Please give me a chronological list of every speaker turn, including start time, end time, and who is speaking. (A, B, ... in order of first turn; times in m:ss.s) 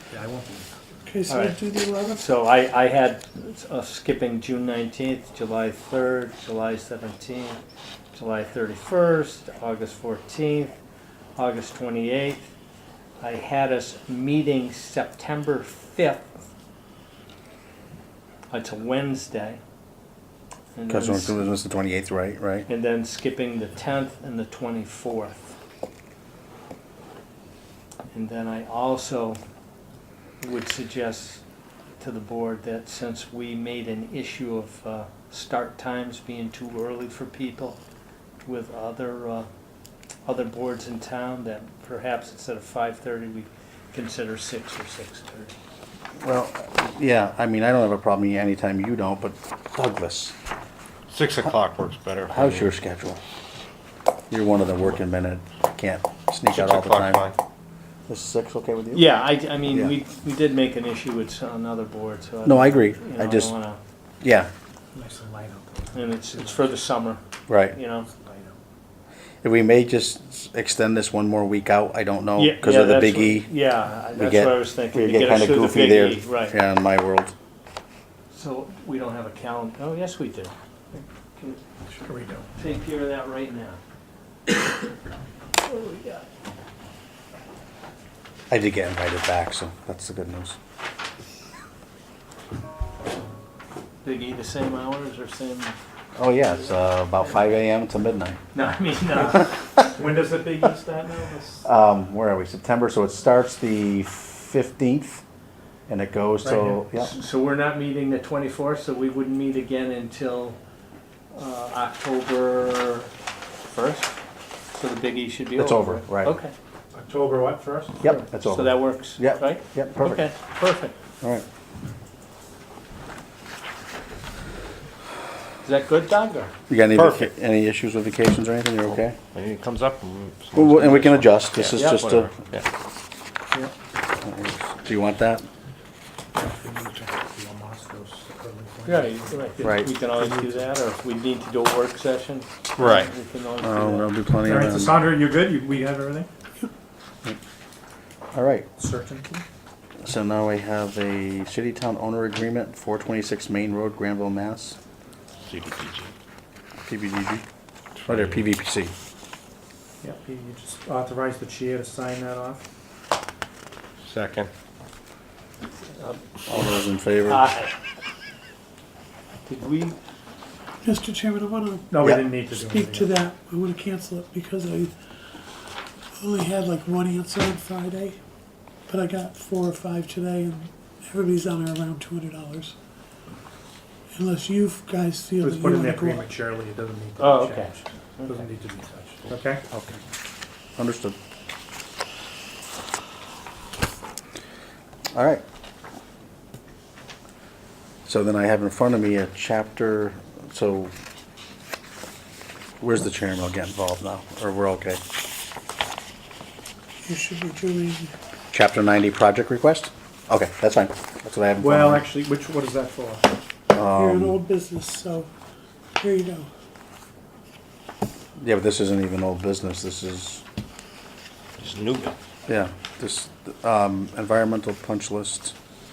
0:00.1-0:00.8 A
0:01.1-0:02.2 B
0:01.3-0:07.6 C
0:08.1-0:10.8 C
0:11.4-0:12.5 C
0:13.2-0:16.5 C
0:18.5-0:19.6 C
0:20.7-0:21.4 C
0:20.9-0:22.7 D
0:22.7-0:25.6 C
0:28.1-0:29.4 C
0:30.4-0:31.4 C
0:32.0-0:37.8 C
0:38.4-0:39.5 C
0:40.2-0:45.5 C
0:46.2-0:50.3 D
0:51.1-0:52.7 E
0:52.3-0:53.2 D
0:54.3-0:57.2 D
0:56.5-0:57.4 E
0:58.1-0:59.1 D
0:58.9-1:03.8 C
0:59.7-1:00.0 D
1:02.4-1:03.5 D
1:04.2-1:04.5 D
1:04.9-1:06.7 A
1:05.9-1:08.1 C
1:07.5-1:07.8 D
1:08.1-1:08.6 A
1:09.4-1:13.5 D
1:12.4-1:16.6 C
1:14.1-1:17.3 D
1:18.3-1:20.6 C
1:21.9-1:22.6 A
1:22.6-1:23.8 C
1:25.6-1:26.3 C
1:28.5-1:30.6 D
1:34.0-1:35.8 C
1:36.2-1:38.4 D
1:38.5-1:39.7 C
1:39.2-1:41.7 A
1:41.6-1:45.2 D
1:45.9-1:47.1 D
1:46.4-1:46.8 A
1:47.0-1:50.6 C
1:51.3-1:53.1 C
1:53.7-1:54.2 C
1:54.7-1:56.5 C
1:55.6-1:56.4 D
1:56.9-1:58.2 A
1:58.0-2:00.3 D
1:58.1-2:01.0 C
2:05.6-2:06.5 C
2:06.7-2:09.2 D
2:06.9-2:07.3 E
2:09.0-2:12.7 E
2:10.6-2:12.3 D
2:11.8-2:12.0 C
2:14.2-2:15.5 D
2:16.3-2:20.7 A
2:18.9-2:24.1 C
2:19.6-2:19.9 D
2:22.8-2:23.1 E
2:23.6-2:25.0 D
2:24.4-2:26.3 A
2:28.3-2:28.7 D
2:28.8-2:29.4 A
2:30.0-2:34.8 D
2:35.4-2:36.1 E
2:36.9-2:37.4 D
2:38.0-2:38.4 E
2:38.1-2:38.9 D
2:40.0-2:42.6 A
2:44.0-2:44.5 E
2:46.0-2:47.7 C
2:46.5-2:47.5 D
2:49.5-2:50.0 C
2:50.8-2:54.9 B
2:51.9-2:53.2 A
2:56.2-2:58.2 B
2:58.9-3:02.8 B
3:04.1-3:06.3 B
3:05.4-3:09.6 A
3:07.2-3:08.5 C
3:09.7-3:10.0 D
3:10.8-3:11.2 D
3:15.1-3:15.4 D
3:18.0-3:20.9 D
3:22.8-3:25.0 D
3:27.0-3:28.1 B
3:28.5-3:32.1 D
3:31.6-3:33.3 A
3:33.7-3:34.4 D
3:33.9-3:35.3 B
3:36.0-3:36.5 B
3:38.4-3:40.4 D
3:41.6-3:42.2 E
3:42.5-3:45.5 D